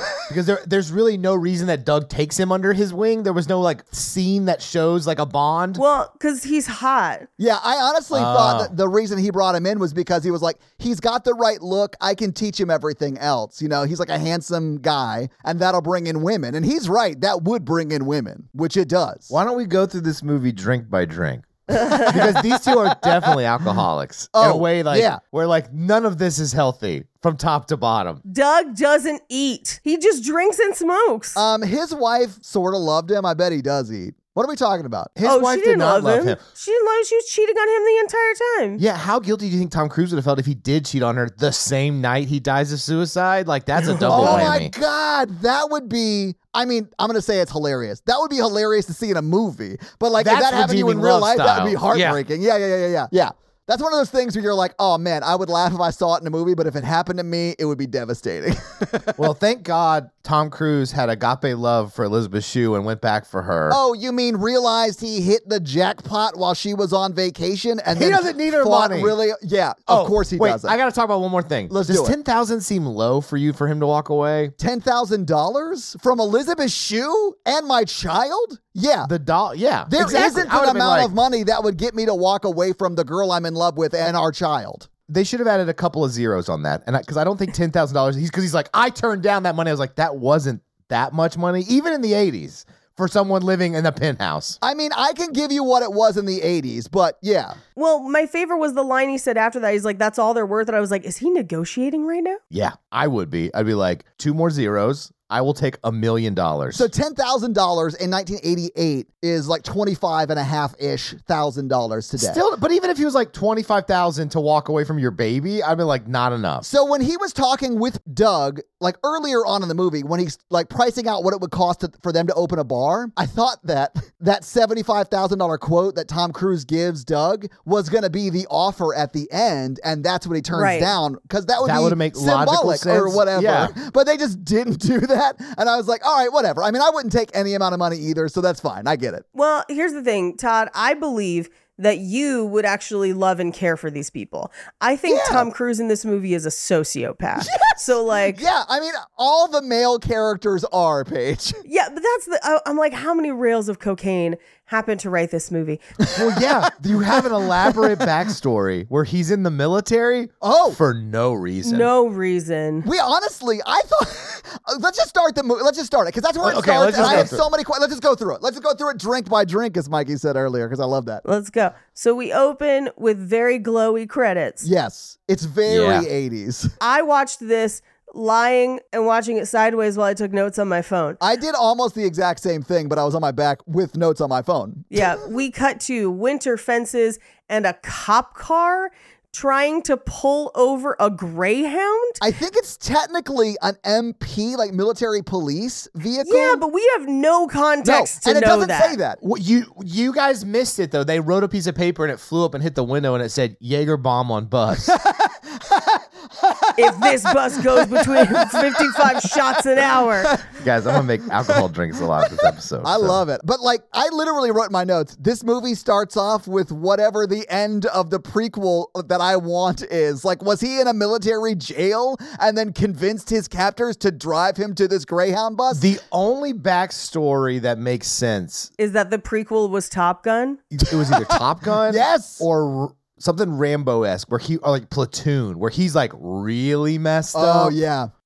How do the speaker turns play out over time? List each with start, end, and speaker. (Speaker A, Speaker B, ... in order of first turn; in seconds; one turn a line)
Speaker A: 0.2-5.8
Speaker B: 5.8-7.3
Speaker C: 7.4-19.3
Speaker A: 8.1-8.7
Speaker A: 19.3-28.2
Speaker B: 21.7-22.2
Speaker C: 24.3-25.2
Speaker B: 28.2-31.4
Speaker C: 31.3-35.1
Speaker A: 35.2-36.4
Speaker B: 35.2-38.8
Speaker A: 38.8-44.7
Speaker B: 44.0-44.5
Speaker C: 44.0-59.3
Speaker A: 50.2-52.2
Speaker A: 59.2-63.8
Speaker C: 63.7-70.8
Speaker A: 67.9-69.2
Speaker A: 69.9-74.5
Speaker C: 71.7-72.1
Speaker C: 74.6-79.1
Speaker A: 79.0-81.1
Speaker C: 79.9-84.9
Speaker A: 85.1-94.6
Speaker C: 94.6-97.6
Speaker B: 97.8-102.4
Speaker A: 102.5-106.9
Speaker C: 106.7-112.4
Speaker A: 112.2-116.7
Speaker C: 116.6-139.2
Speaker B: 130.5-130.9
Speaker A: 131.6-133.7
Speaker B: 139.3-148.4
Speaker C: 145.1-145.5
Speaker C: 147.4-151.6
Speaker B: 151.6-155.8
Speaker C: 156.0-156.4
Speaker A: 156.1-161.9
Speaker C: 157.1-158.0
Speaker C: 160.4-160.8
Speaker B: 161.6-162.9
Speaker C: 162.8-171.2
Speaker A: 166.4-167.4
Speaker B: 171.2-174.7
Speaker C: 174.6-176.7
Speaker A: 175.7-176.1
Speaker B: 176.8-181.2
Speaker C: 181.2-185.2
Speaker B: 184.9-192.2
Speaker C: 192.2-196.6
Speaker B: 196.2-199.0
Speaker C: 197.8-199.2
Speaker A: 199.2-205.0
Speaker C: 204.8-209.3
Speaker B: 206.8-210.4
Speaker C: 210.2-211.6
Speaker A: 210.6-213.2
Speaker C: 212.1-225.9
Speaker A: 225.7-228.7
Speaker B: 228.8-230.6
Speaker A: 230.8-237.8
Speaker C: 230.9-232.4
Speaker C: 237.3-238.1